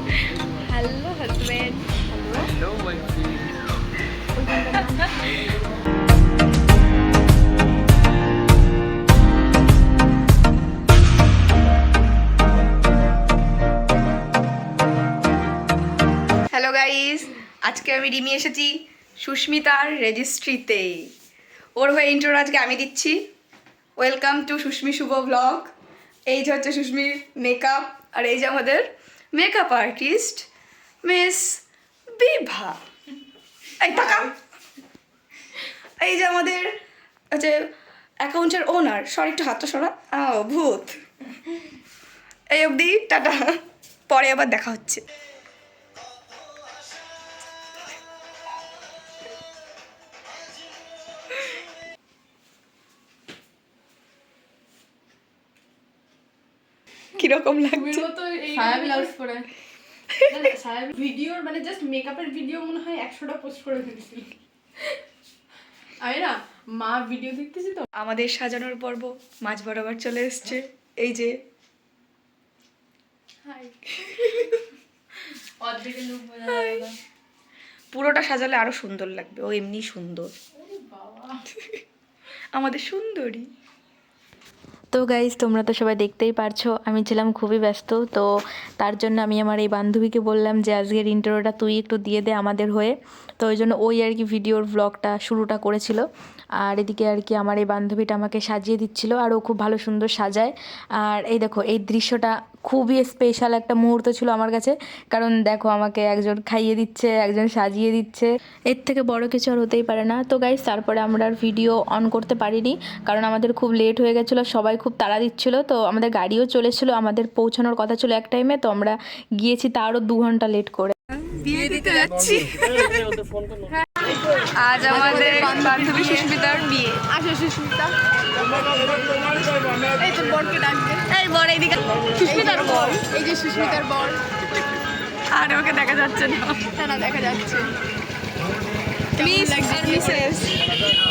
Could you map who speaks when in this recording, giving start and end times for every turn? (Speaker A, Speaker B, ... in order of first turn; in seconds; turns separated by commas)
Speaker A: 0.6-1.9, Speaker B: 2.1-2.5, Speaker B: 4.3-5.2, Speaker C: 16.5-21.1, Speaker C: 21.8-23.3, Speaker C: 24.0-25.7, Speaker C: 26.3-30.5, Speaker C: 31.0-32.8, Speaker C: 33.8-34.4, Speaker C: 36.0-36.7, Speaker C: 37.3-37.6, Speaker C: 38.2-41.0, Speaker C: 42.5-45.0, Speaker C: 57.2-58.0, Speaker B: 57.7-59.5, Speaker C: 58.6-59.1, Speaker B: 60.2-64.3, Speaker B: 66.0-67.8, Speaker C: 67.9-71.4, Speaker B: 73.5-74.5, Speaker B: 75.6-76.9, Speaker C: 76.5-76.9, Speaker C: 77.9-80.3, Speaker B: 80.5-81.4, Speaker C: 81.6-81.8, Speaker C: 82.5-83.5, Speaker A: 84.9-88.3, Speaker A: 88.8-96.1, Speaker A: 96.6-121.0, Speaker C: 121.2-122.9, Speaker B: 121.5-122.1, Speaker B: 123.8-124.2, Speaker C: 124.5-127.1, Speaker B: 124.8-131.1, Speaker C: 131.1-133.0, Speaker B: 132.2-134.2, Speaker C: 135.3-136.7, Speaker B: 136.7-137.7, Speaker B: 139.2-140.3, Speaker C: 139.2-140.6